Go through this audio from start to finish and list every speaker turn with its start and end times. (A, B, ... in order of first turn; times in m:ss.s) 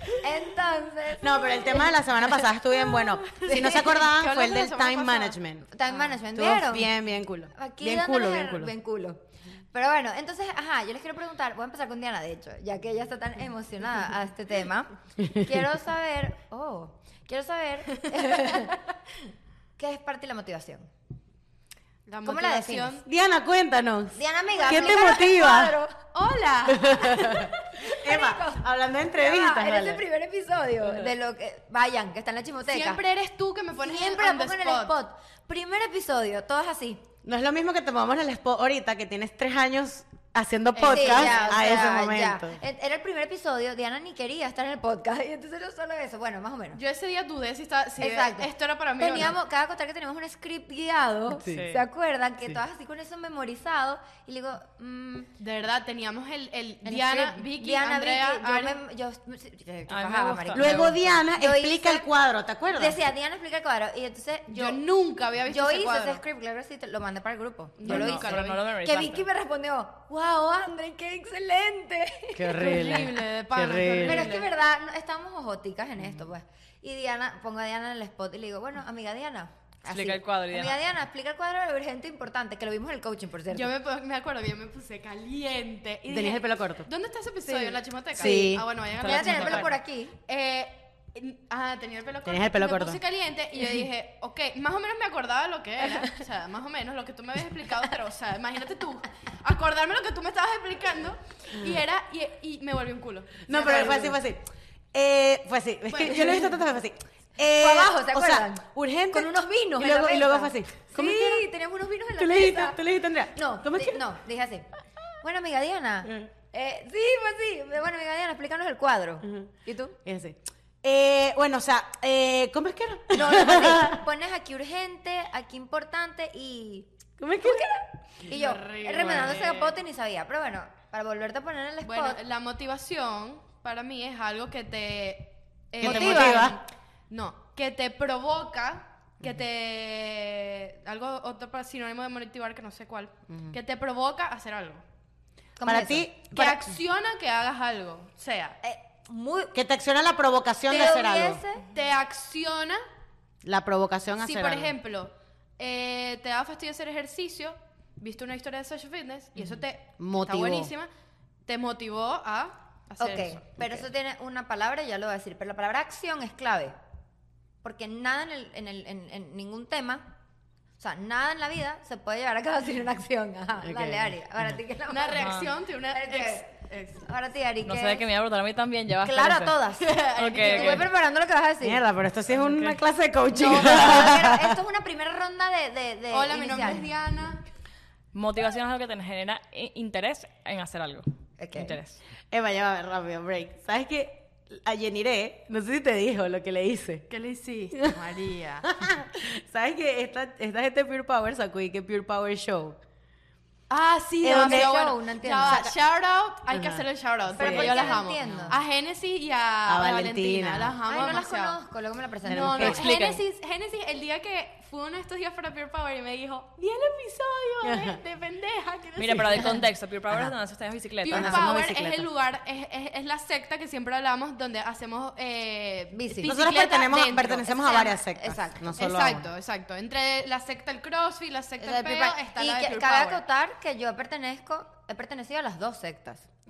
0:00.2-0:02.0 A
0:01.2-0:05.7 B
0:02.8-0:05.4 C
0:05.7-0:06.9 A
0:06.3-0:08.7 B
0:07.5-0:18.8 A
0:19.8-0:20.9 A
0:22.1-0:23.1 C
0:22.2-0:23.0 A
0:23.0-0:25.8 B
0:24.2-0:26.0 A
0:24.5-0:25.2 C
0:26.1-0:27.5 C
0:26.8-0:30.0 B
0:27.2-0:28.6 A
0:29.1-0:33.0 A
0:32.7-0:34.9 C
0:33.8-0:37.0 A
0:37.2-0:42.6 B
0:40.8-0:41.9 C
0:40.8-0:46.8 A
0:46.8-0:49.4 C
0:48.0-0:55.3 A
0:51.3-0:51.7 B
0:51.5-0:51.8 D
0:55.4-0:58.8 C
0:56.8-1:02.1 A
0:59.9-1:01.0 D
1:00.5-1:03.0 B
1:02.7-1:04.8 A
1:04.5-1:06.2 C
1:05.5-1:13.1 A
1:07.8-1:08.6 C
1:07.8-1:09.3 D
1:12.4-1:14.3 B
1:12.6-1:14.5 C
1:14.0-1:23.7 A
1:16.0-1:16.3 B
1:19.9-1:20.8 D
1:23.5-1:44.2 C
1:26.1-1:26.9 B
1:27.5-1:30.2 A
1:28.1-1:28.7 B
1:29.0-1:29.7 D
1:32.2-1:33.0 B
1:41.6-1:41.8 B
1:43.5-1:51.5 B
1:45.9-1:46.6 C
1:47.5-1:52.8 A
1:52.2-1:54.0 B
1:53.3-1:54.7 A
1:55.2-2:00.0 A
1:59.2-2:04.0 B
2:03.1-2:12.2 A
2:07.2-2:08.4 B
2:08.3-2:09.6 C
2:11.8-2:24.8 C
2:15.8-2:16.6 A
2:15.8-2:16.6 B
2:23.3-2:23.6 B
2:25.6-2:26.1 A
2:25.6-2:26.8 B
2:26.3-2:28.6 C
2:28.6-2:29.5 A
2:29.5-2:31.4 B
2:30.7-2:31.7 A
2:31.7-2:32.8 C
2:33.4-2:34.8 B
2:34.2-2:40.9 C
2:39.4-2:40.7 B
2:41.5-2:43.4 C
2:43.0-2:46.8 A
2:47.6-2:50.1 A
2:50.8-2:58.0 A
2:53.6-2:54.6 B
2:54.9-2:57.1 C
2:55.2-2:55.5 D
2:57.6-2:59.6 D
2:59.0-3:01.8 A
2:59.8-3:00.9 C
3:00.2-3:00.9 D
3:01.6-3:04.6 B
3:02.3-3:02.8 D
3:03.3-3:06.9 A
3:03.6-3:04.0 C
3:06.1-3:07.4 C
3:08.1-3:12.0 D
3:11.4-3:11.8 A
3:12.3-3:17.1 B
3:17.1-3:18.7 C
3:17.7-3:18.1 B
3:18.6-3:22.8 B
3:23.7-3:31.6 C
3:24.2-3:24.7 B
3:24.2-3:25.7 A
3:25.4-3:25.8 B
3:26.5-3:28.6 B
3:27.3-3:28.6 A
3:29.6-3:30.8 B
3:30.9-3:32.8 A
3:32.3-3:32.8 B
3:32.3-3:39.6 C
3:32.6-3:33.2 D
3:37.6-3:38.0 B
3:39.0-3:41.5 D
3:41.0-3:47.9 C
3:41.1-3:42.1 B
3:45.9-3:46.4 A
3:46.2-3:49.3 B
3:47.6-3:48.7 A
3:48.8-3:53.2 C
3:51.6-3:56.3 A